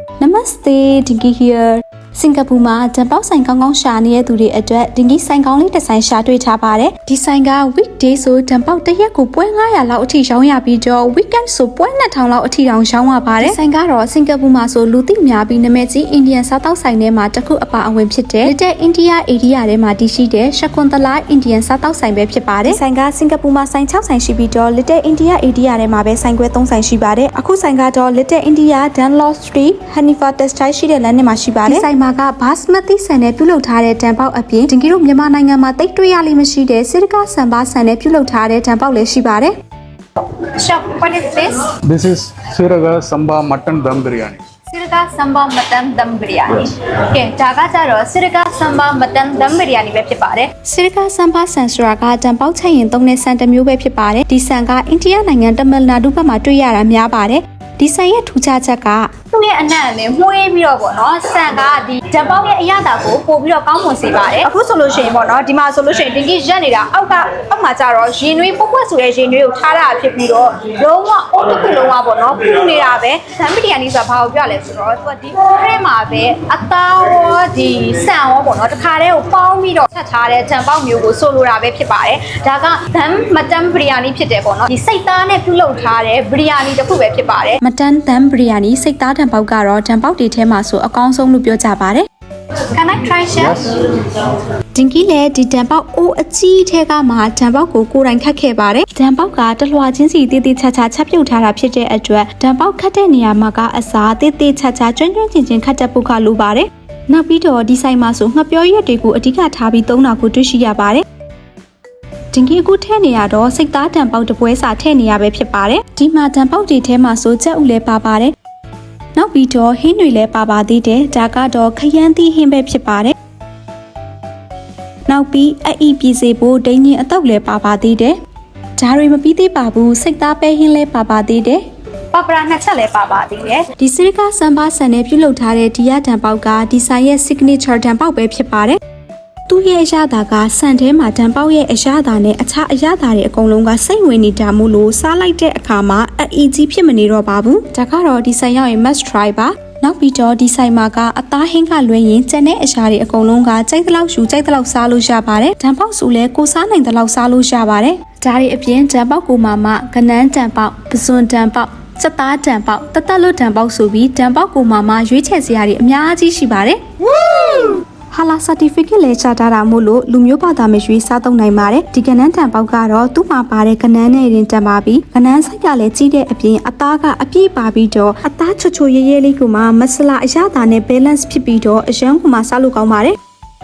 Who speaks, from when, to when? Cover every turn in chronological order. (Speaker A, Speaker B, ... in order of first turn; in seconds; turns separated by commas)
Speaker A: 0.2-39.5, Speaker B: 40.3-41.7, Speaker C: 42.0-44.3, Speaker B: 44.7-50.5, Speaker A: 50.6-59.1, Speaker B: 59.3-87.6, Speaker A: 87.6-92.0, Speaker B: 92.6-94.1, Speaker A: 94.7-111.0, Speaker A: 112.3-118.3, Speaker A: 119.2-123.1, Speaker A: 125.1-128.2, Speaker A: 128.8-131.6, Speaker B: 132.1-133.7, Speaker A: 133.8-138.8, Speaker A: 139.5-183.2